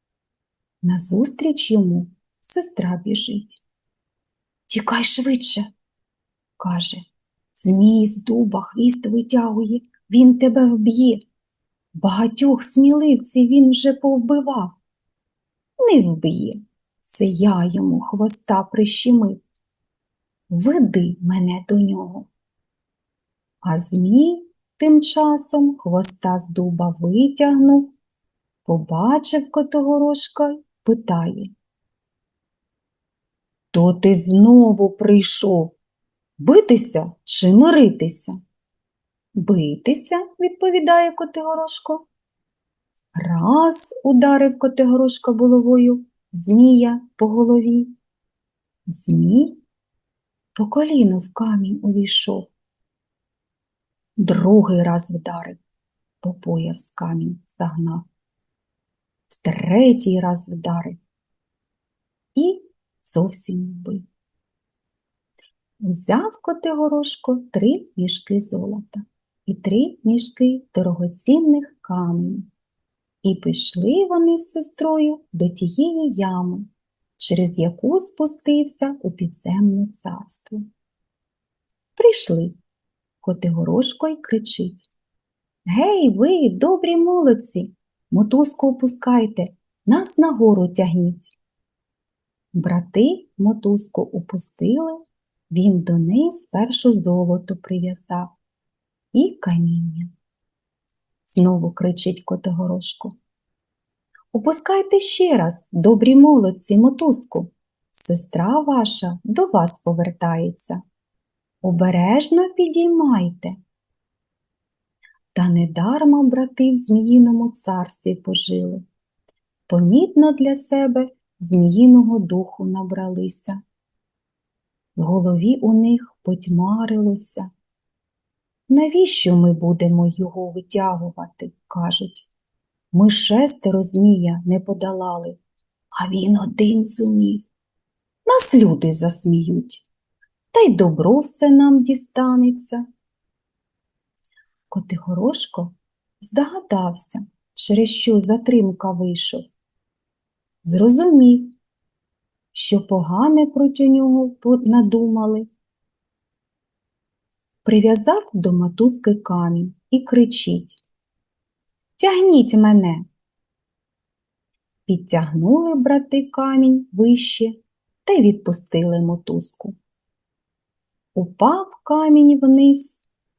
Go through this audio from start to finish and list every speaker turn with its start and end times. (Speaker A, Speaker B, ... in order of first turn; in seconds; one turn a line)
Speaker A: 0.8-3.6
Speaker A: 4.7-5.7
Speaker A: 6.6-7.0
Speaker A: 7.5-11.2
Speaker A: 12.0-14.8
Speaker A: 15.8-19.4
Speaker A: 20.5-22.3
Speaker A: 23.6-27.9
Speaker A: 28.7-31.5
Speaker A: 33.7-35.7
Speaker A: 36.4-38.4
Speaker A: 39.4-42.0
Speaker A: 43.2-47.9
Speaker A: 48.9-49.6
Speaker A: 50.6-52.5
Speaker A: 54.2-55.6
Speaker A: 56.2-58.1
Speaker A: 59.3-61.0
Speaker A: 62.4-64.1
Speaker A: 65.8-72.5
Speaker A: 73.2-80.7
Speaker A: 82.0-82.6
Speaker A: 83.2-84.9
Speaker A: 85.7-91.3
Speaker A: 92.5-95.0
Speaker A: 95.5-98.3
Speaker A: 99.1-100.1
Speaker A: 101.3-103.1
Speaker A: 104.3-110.8
Speaker A: 111.6-113.5
Speaker A: 115.3-118.8
Speaker A: 119.7-123.6
Speaker A: 125.0-127.5
Speaker A: 128.7-132.3
Speaker A: 132.9-135.4
Speaker A: 136.0-137.5
Speaker A: 138.3-139.8
Speaker A: 140.5-142.8
Speaker A: 144.7-149.4
Speaker A: 150.7-151.6
Speaker A: 152.5-155.5
Speaker A: 157.7-160.8
Speaker A: 162.0-163.1
Speaker A: 164.9-169.7
Speaker A: 171.2-173.0